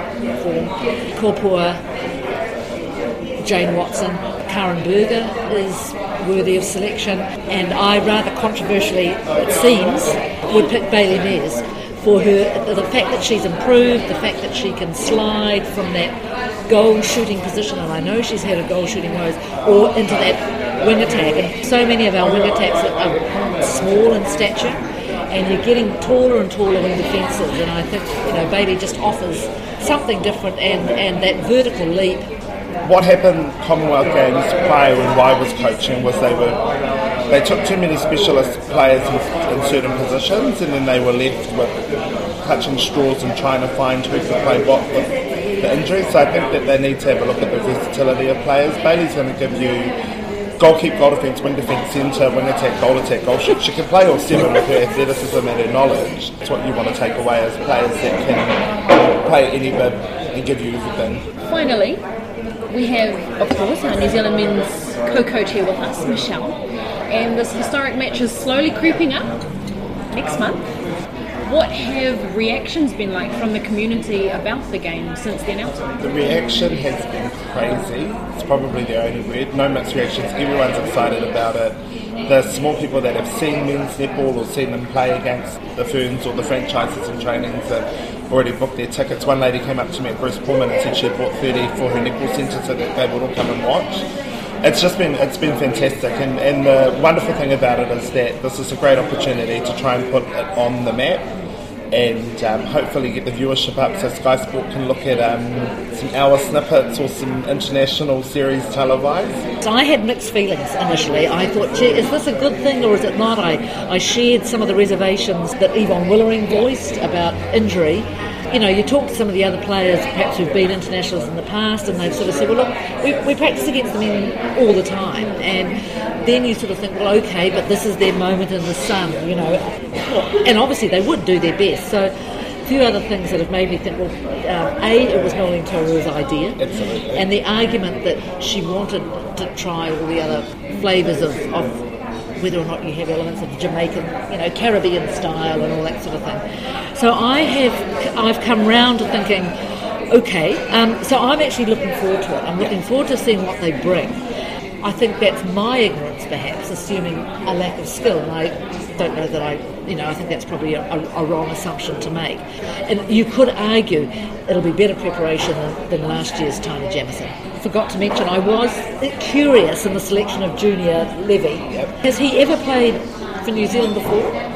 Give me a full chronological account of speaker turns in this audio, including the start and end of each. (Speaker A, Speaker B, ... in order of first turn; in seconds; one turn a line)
Speaker A: 0.4-1.8
Speaker A: 3.4-32.3
Speaker B: 32.8-36.6
Speaker B: 37.3-41.8
Speaker B: 42.4-50.0
Speaker B: 50.6-61.3
Speaker C: 61.4-62.0
Speaker C: 62.7-69.4
Speaker C: 70.1-70.7
Speaker C: 71.4-75.8
Speaker B: 76.0-94.1
Speaker B: 94.6-101.3
Speaker B: 101.9-109.5
Speaker A: 109.6-132.1
Speaker A: 132.6-136.6
Speaker B: 136.6-137.3
Speaker A: 137.1-141.8
Speaker A: 142.4-146.4
Speaker A: 146.9-149.5
Speaker A: 150.1-154.2
Speaker A: 154.8-174.4